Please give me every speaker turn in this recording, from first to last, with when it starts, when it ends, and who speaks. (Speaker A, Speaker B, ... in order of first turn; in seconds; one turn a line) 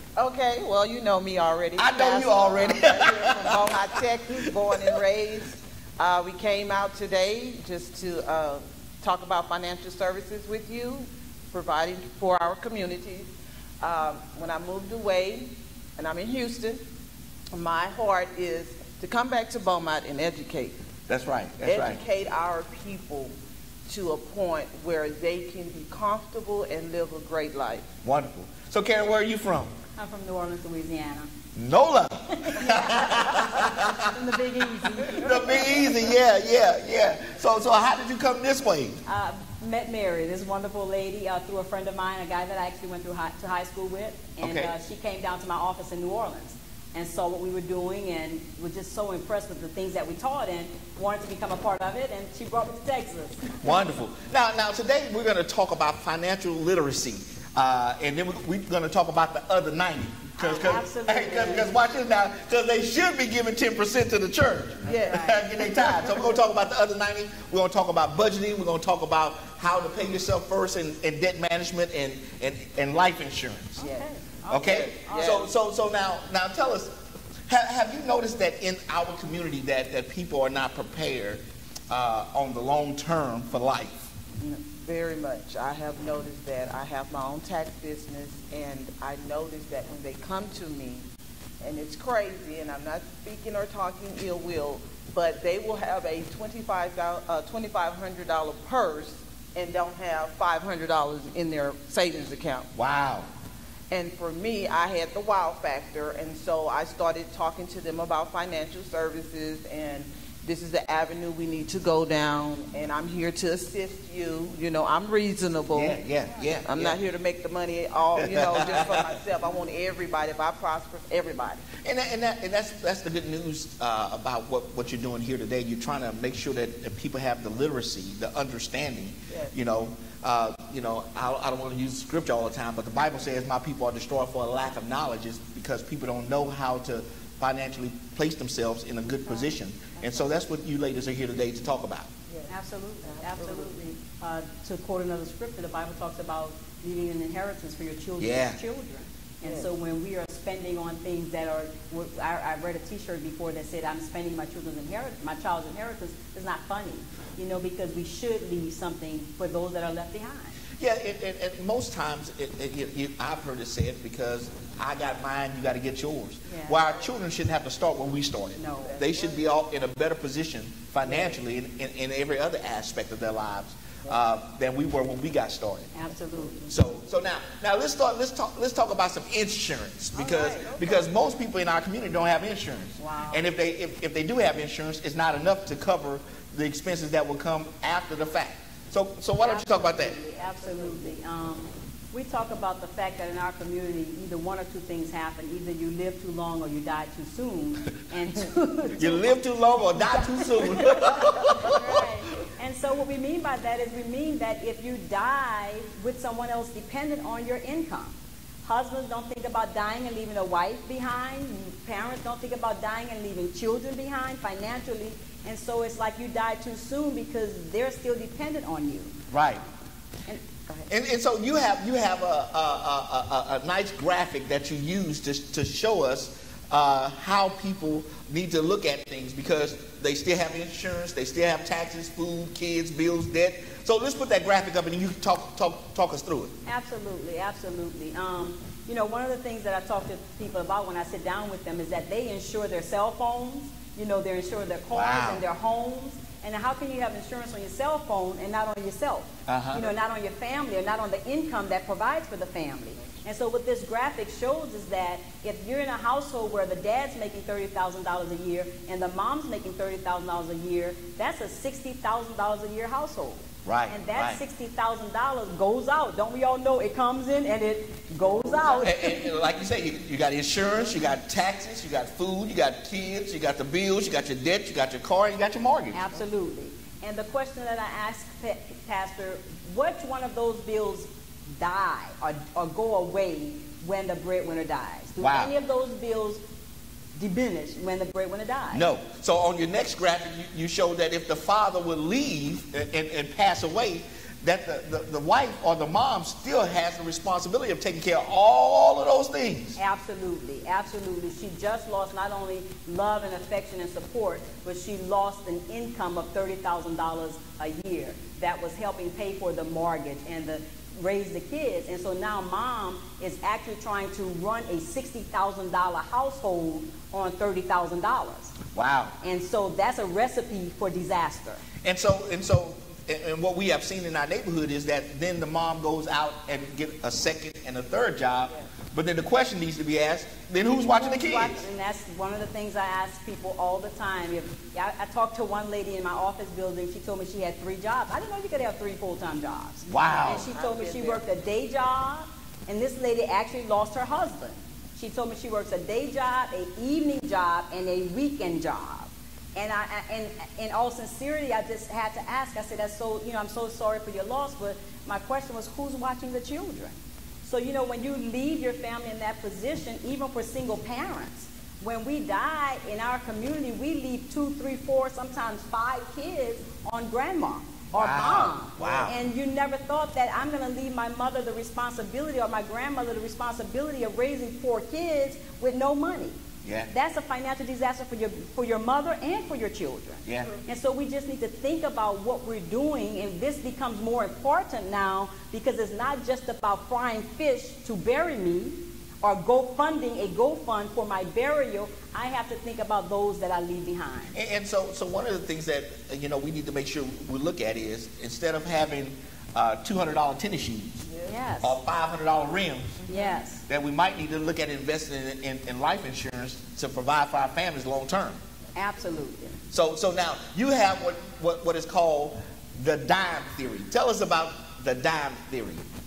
Speaker A: 0.2-13.3
Speaker B: 1.8-3.8
Speaker B: 4.4-5.0
Speaker A: 13.8-16.8
Speaker A: 17.5-20.7
Speaker B: 21.1-22.0
Speaker A: 21.6-23.3
Speaker A: 23.9-27.9
Speaker B: 28.0-29.8
Speaker C: 30.0-31.3
Speaker B: 31.5-34.1
Speaker C: 32.3-35.9
Speaker B: 35.0-39.0
Speaker C: 39.0-53.8
Speaker B: 44.4-44.7
Speaker B: 53.6-73.8
Speaker C: 60.4-61.7
Speaker A: 64.8-66.1
Speaker C: 65.0-65.4
Speaker C: 73.8-75.5
Speaker A: 73.8-75.5
Speaker B: 74.5-76.9
Speaker B: 77.5-84.1
Speaker A: 84.4-91.0
Speaker A: 91.6-102.7
Speaker B: 102.7-103.3
Speaker A: 103.9-116.0
Speaker B: 115.7-117.0
Speaker A: 116.6-121.8
Speaker B: 118.2-119.2
Speaker B: 121.8-142.1
Speaker C: 142.5-160.6
Speaker A: 143.0-143.7
Speaker B: 148.2-148.6
Speaker B: 160.8-175.9
Speaker C: 166.4-166.9
Speaker C: 168.6-169.0
Speaker A: 168.8-169.5
Speaker C: 175.9-176.7
Speaker B: 176.7-190.1
Speaker C: 180.1-180.8
Speaker A: 180.3-181.1
Speaker C: 183.0-183.4
Speaker C: 189.4-199.4
Speaker A: 190.4-191.1
Speaker B: 199.0-202.1
Speaker C: 199.9-219.1
Speaker B: 219.3-219.6
Speaker B: 220.9-236.5
Speaker C: 236.7-269.2
Speaker B: 244.9-245.4
Speaker B: 249.5-249.8
Speaker B: 263.6-264.4
Speaker A: 268.2-268.8
Speaker B: 268.8-276.0
Speaker C: 275.9-286.4
Speaker B: 285.2-285.5
Speaker C: 287.1-288.8
Speaker B: 288.7-299.8
Speaker C: 299.8-318.6
Speaker B: 318.7-319.1
Speaker C: 319.2-321.6
Speaker B: 321.8-331.6
Speaker C: 330.9-394.3
Speaker B: 339.9-340.5
Speaker A: 340.4-341.2
Speaker B: 367.9-369.1
Speaker B: 376.6-376.9
Speaker B: 394.3-401.1
Speaker A: 401.1-401.3
Speaker C: 401.3-401.8
Speaker B: 401.6-403.1
Speaker A: 403.1-403.3
Speaker C: 403.1-403.6
Speaker B: 403.6-408.4
Speaker C: 408.8-409.6
Speaker B: 409.7-415.8